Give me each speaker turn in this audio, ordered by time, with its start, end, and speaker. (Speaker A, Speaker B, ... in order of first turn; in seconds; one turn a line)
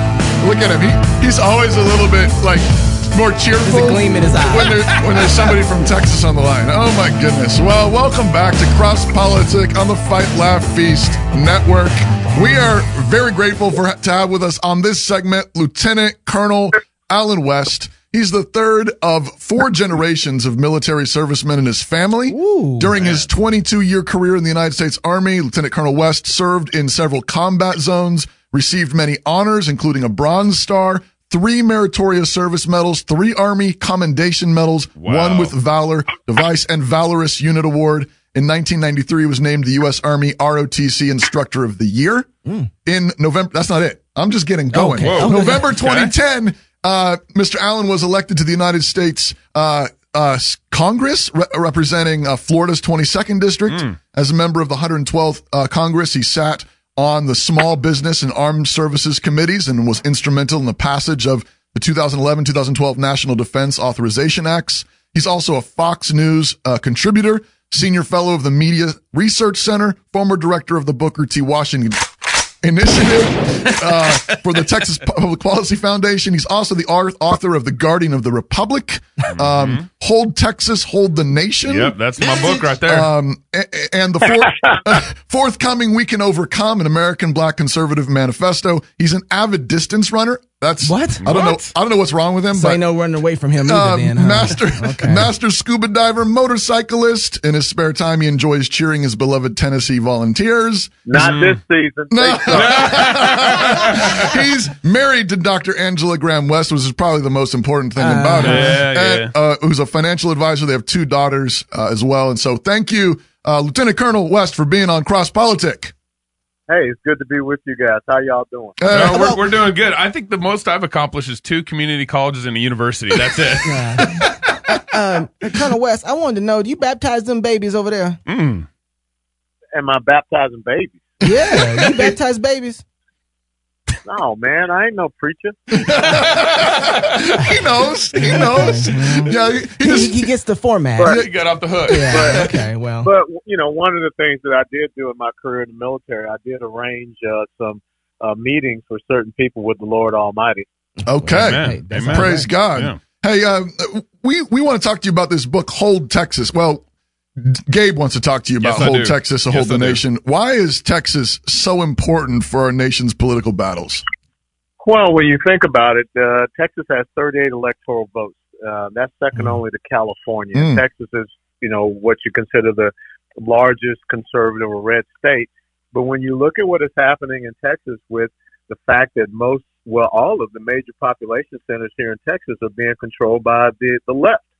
Speaker A: 0.4-42.3
Speaker B: 3.6-5.0
Speaker C: 4.6-5.4
Speaker B: 22.3-22.9
Speaker C: 23.0-23.2
Speaker C: 35.0-35.5
Speaker A: 42.8-92.8
Speaker B: 44.7-45.7
Speaker C: 45.0-46.1
Speaker C: 53.7-54.0
Speaker C: 79.3-79.9
Speaker C: 81.6-83.1
Speaker B: 90.8-91.2
Speaker C: 91.2-91.7
Speaker B: 92.5-95.3
Speaker A: 93.6-101.1
Speaker D: 101.0-103.1
Speaker C: 101.1-101.6
Speaker A: 102.1-115.9
Speaker C: 102.5-104.3
Speaker B: 108.0-108.8
Speaker C: 108.4-109.3
Speaker D: 116.7-118.8
Speaker A: 118.8-119.4
Speaker C: 118.9-124.5
Speaker B: 119.0-119.4
Speaker B: 123.6-128.2
Speaker C: 128.2-128.7
Speaker D: 129.7-131.2
Speaker B: 131.2-132.8
Speaker D: 134.0-135.7
Speaker A: 135.7-140.3
Speaker C: 135.9-137.3
Speaker B: 137.4-141.2
Speaker D: 141.0-141.2
Speaker C: 141.1-142.5
Speaker B: 141.9-143.1
Speaker D: 142.1-142.5
Speaker D: 143.0-150.6
Speaker A: 151.0-156.8
Speaker C: 151.2-153.0
Speaker B: 151.2-152.5
Speaker A: 157.4-164.0
Speaker C: 158.6-160.0
Speaker D: 164.8-184.5
Speaker A: 170.5-170.8